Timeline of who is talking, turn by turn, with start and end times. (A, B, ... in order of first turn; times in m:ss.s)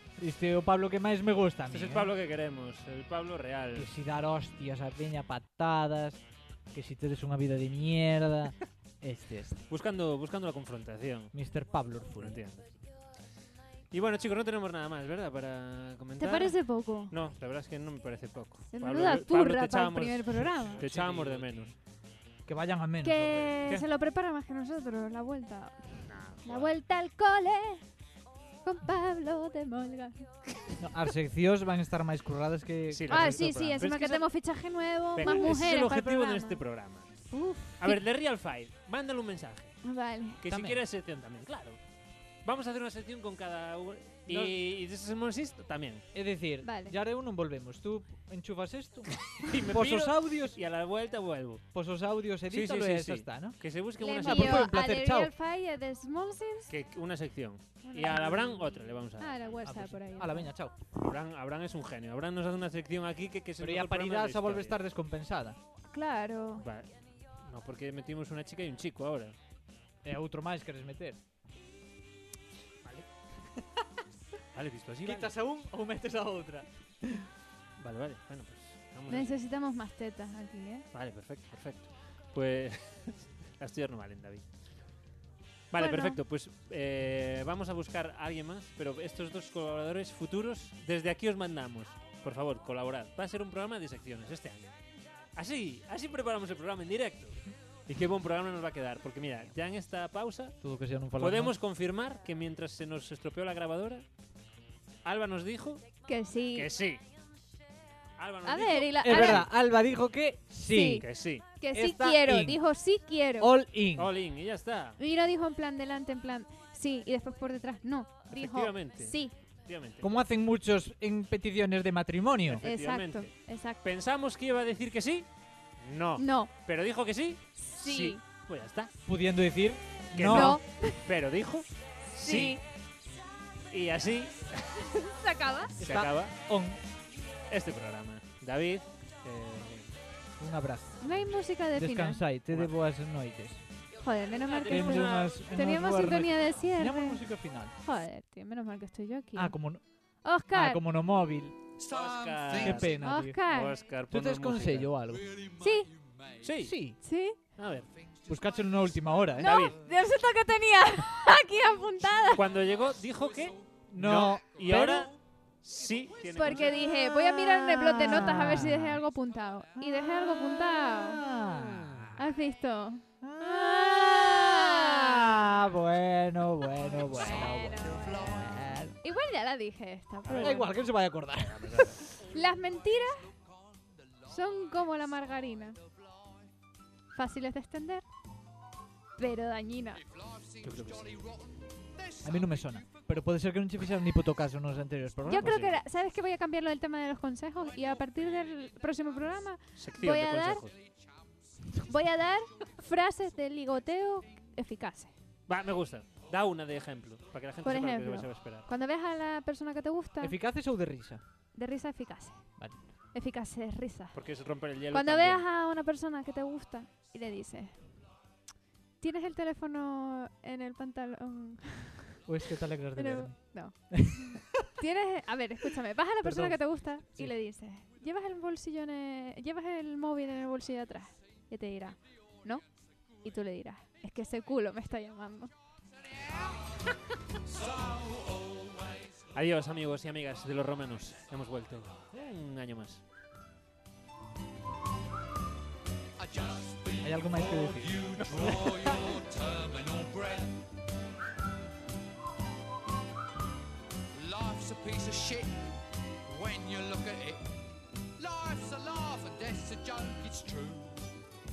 0:00.2-0:02.1 A
0:01.7-0:03.9 B
0:03.7-0:09.6 A
0:09.7-0:11.4 B
0:11.3-0:12.4 A
0:12.2-0:12.8 B
0:13.9-0:21.8 B
0:16.2-0:17.1 C
0:18.7-0:20.8 C
0:20.8-0:21.7 A
0:22.4-0:23.6 A
0:23.0-0:27.8 C
0:26.0-0:26.7 B
0:28.6-0:30.3 C
0:30.8-0:33.5 A
0:32.9-0:34.3 B
0:33.1-0:36.6 C
0:35.2-0:37.1 B
0:35.2-0:35.6 A
0:37.3-0:38.0 C
0:37.8-0:39.8 B
0:39.8-0:40.4 C
0:40.4-0:41.8 B
0:40.4-0:40.8 A
0:42.4-0:46.0 B
0:44.3-0:44.6 A
0:46.1-0:50.6 A
0:46.6-0:46.9 C
0:49.3-0:51.6 B
0:51.7-0:55.3 A
0:52.5-0:54.7 B
0:54.0-0:56.7 C
0:56.7-0:59.9 B
0:57.8-1:00.5 C
0:59.6-1:00.8 A
1:01.0-1:04.8 B
1:03.6-1:05.6 A
1:05.9-1:06.6 C
1:06.6-1:09.4 B
1:10.0-1:11.2 A
1:12.8-1:13.1 B
1:14.5-1:15.3 B
1:15.0-1:17.3 A
1:17.8-1:19.4 B
1:19.1-1:20.8 C
1:20.9-1:24.5 B
1:25.7-1:34.7 B
1:25.8-1:26.2 C
1:35.4-1:40.6 B
1:40.6-1:41.6 A
1:41.2-1:44.0 B
1:45.0-1:45.8 B
1:46.0-1:46.7 C
1:46.5-1:47.0 B
1:48.2-1:49.5 B
1:48.4-1:49.4 C
1:49.0-1:51.1 A
1:50.7-1:53.5 C
1:51.0-1:51.4 B
1:51.7-1:52.6 A
1:53.4-1:54.1 A
1:53.9-1:55.0 B
1:55.0-1:59.3 C
1:58.3-2:00.1 B
2:00.0-2:02.6 A
2:02.4-2:05.3 B
2:02.6-2:03.8 C
2:05.8-2:08.9 B
2:06.2-2:06.5 C
2:07.8-2:08.2 C
2:09.0-2:10.6 A
2:10.1-2:12.6 B
2:10.3-2:11.0 C
2:12.2-2:12.6 C
2:13.7-2:14.9 B
2:15.0-2:15.7 C
2:15.8-2:16.8 A
2:15.8-2:16.4 B
2:17.5-2:19.9 B
2:20.4-2:21.2 A
2:21.0-2:22.2 C
2:21.7-2:23.6 A
2:24.0-2:30.8 C
2:24.4-2:26.2 B
2:24.7-2:27.7 A
2:29.3-2:31.6 A
2:31.8-2:32.9 D
2:31.9-2:34.9 B
2:32.5-2:33.4 A
2:33.0-2:33.7 C
2:34.1-2:35.3 A
2:35.1-2:36.6 D
2:35.6-2:35.9 C
2:36.4-2:36.8 B
2:36.6-2:37.0 A
2:37.0-2:37.4 C
2:37.6-2:37.9 B
2:37.9-2:39.4 D
2:38.2-2:39.7 A
2:39.4-2:39.7 B
2:39.4-2:42.4 C
2:42.3-2:46.9 B
2:42.4-2:43.7 D
2:43.9-2:45.1 A
2:44.5-2:44.9 D
2:45.8-2:46.7 D
2:46.3-2:51.2 C
2:47.7-2:49.0 A
2:49.9-2:52.2 A
2:52.2-2:55.4 C
2:53.2-2:59.0 A
2:56.9-3:00.7 C
2:57.1-2:58.8 D
3:00.3-3:00.7 B
3:00.3-3:02.0 A
3:01.4-3:02.0 B
3:02.1-3:03.2 C
3:03.5-3:04.5 D
3:04.3-3:05.8 C
3:07.1-3:08.0 C
3:09.2-3:10.0 C
3:10.0-3:13.1 D
3:10.6-3:11.2 B
3:12.2-3:15.6 A
3:15.2-3:20.6 C
3:15.4-3:15.8 B
3:18.1-3:18.5 D
3:19.8-3:20.7 B
3:21.8-3:25.1 C
3:25.5-3:28.7 B
3:27.6-3:30.4 C
3:30.2-3:31.2 A
3:31.5-3:34.2 C
3:32.6-3:32.8 A
3:34.1-3:35.4 B
3:34.9-3:38.1 C
3:39.0-3:42.2 C
3:42.2-3:44.6 A
3:42.9-3:55.5 C
3:46.2-3:46.6 A
3:57.5-3:59.1 D
3:59.3-4:03.0 B
4:06.2-4:10.6 D
4:07.0-4:09.1 A
4:14.1-4:15.7 D
4:16.2-4:17.5 D
4:18.2-4:21.1 D